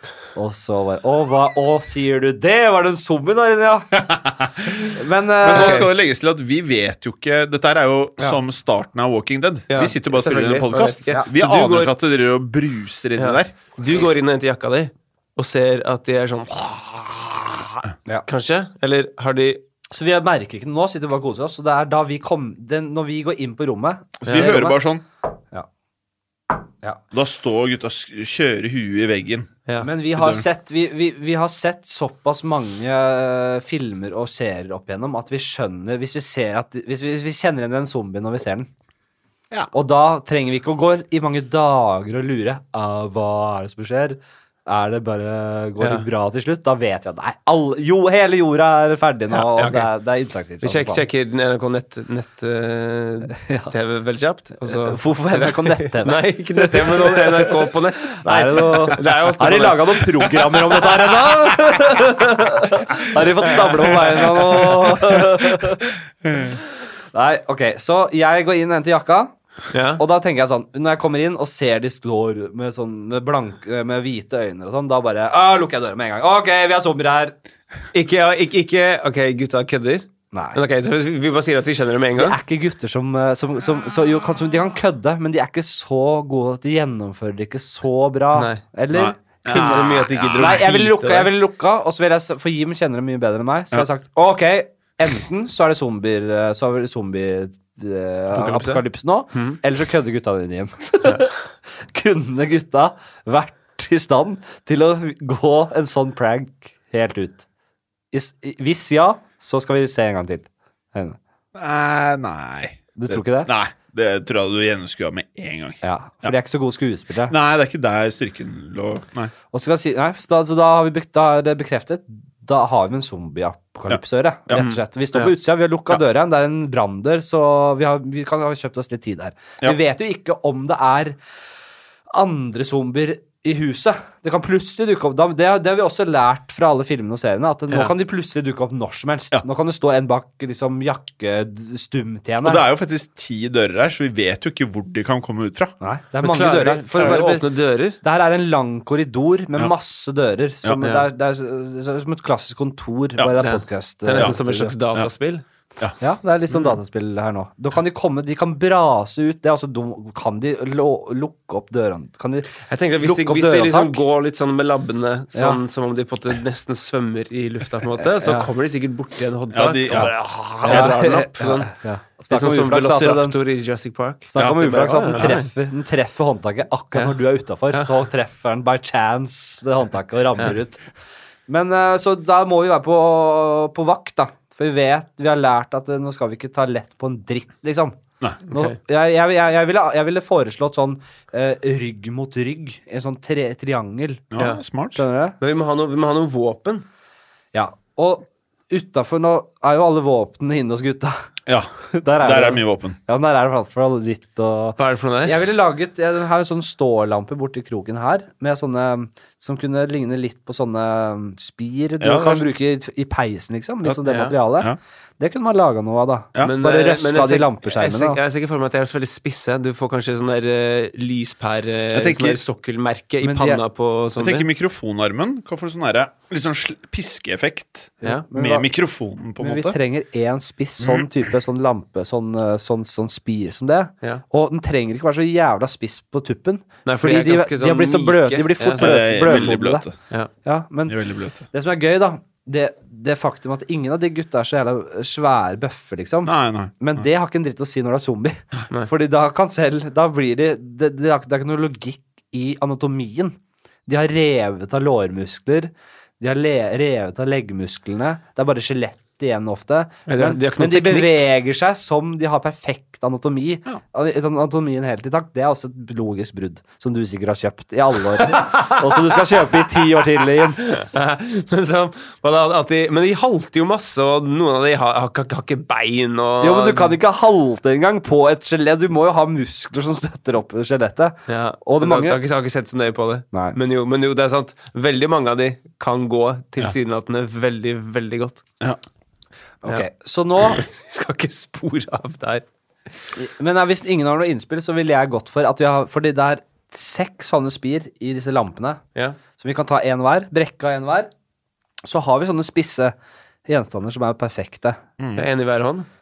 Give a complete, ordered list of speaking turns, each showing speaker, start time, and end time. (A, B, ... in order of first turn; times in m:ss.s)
0:00.3-0:04.0 A
0:04.0-0:04.8 B
0:04.9-0:05.9 A
0:05.4-0:13.6 B
0:05.5-0:05.9 C
0:09.7-0:11.9 C
0:13.2-0:19.6 C
0:19.9-0:24.8 A
0:24.2-0:25.0 B
0:27.1-0:29.5 B
0:29.8-0:38.7 A
0:30.2-0:30.4 B
0:39.7-0:51.0 A
0:49.3-0:49.9 C
0:50.6-1:02.1 C
0:53.3-0:53.7 A
0:54.6-0:57.7 A
0:58.2-1:05.9 A
1:03.5-1:04.9 C
1:07.1-1:09.3 A
1:09.7-1:10.0 C
1:10.0-1:17.3 A
1:17.9-1:22.4 C
1:20.3-1:20.6 A
1:22.2-1:47.4 A
1:28.3-1:28.6 C
1:28.9-1:30.6 B
1:29.4-1:31.3 C
1:38.3-1:39.6 C
1:48.1-1:51.2 A
1:51.5-1:56.3 B
1:53.0-1:53.5 A
1:55.8-1:57.3 A
1:57.3-1:59.3 B
1:59.5-2:11.2 A
2:03.9-2:04.7 B
2:04.5-2:05.3 C
2:12.1-2:22.6 A
2:22.4-2:25.7 B
2:25.8-2:27.5 A
2:26.2-2:28.0 C
2:28.0-2:34.7 A
2:30.8-2:31.1 C
2:33.4-2:35.4 C
2:36.0-2:44.0 A
2:42.7-2:51.7 C
2:45.3-2:45.6 A
2:48.0-2:48.5 A
2:49.5-2:50.1 B
2:50.6-2:53.4 A
2:50.7-2:50.9 B
2:52.3-2:55.5 C
2:54.3-3:00.8 A
2:54.4-2:55.3 B
3:01.5-3:14.3 A
3:08.5-3:08.8 C
3:14.3-3:15.0 B
3:14.9-3:15.4 A
3:15.4-3:16.8 C
3:17.5-3:21.2 A
3:21.4-3:23.0 B
3:21.9-3:38.2 A
3:24.8-3:25.4 C
3:32.0-3:32.5 B
3:34.0-3:34.3 C
3:36.4-3:44.5 C
3:41.9-3:42.4 B
3:43.2-3:43.6 A
3:44.2-3:49.8 B
3:48.0-3:48.7 A
3:49.4-3:59.8 A
3:50.8-3:51.1 B
3:56.8-3:59.6 C
3:58.8-4:00.0 B
4:00.4-4:01.0 A
4:00.9-4:01.4 B
4:01.5-4:30.6 A
4:06.2-4:07.0 B
4:20.1-4:21.2 C
4:28.3-4:28.7 C
4:30.6-4:37.0 C
4:36.4-4:42.2 A
4:41.3-4:48.4 C
4:49.6-4:50.6 A
4:50.4-4:52.4 C
4:53.2-4:58.8 A
4:59.4-5:01.1 A
5:01.8-5:02.9 A
5:03.4-5:04.8 A
5:05.0-5:05.2 B
5:05.2-5:05.9 C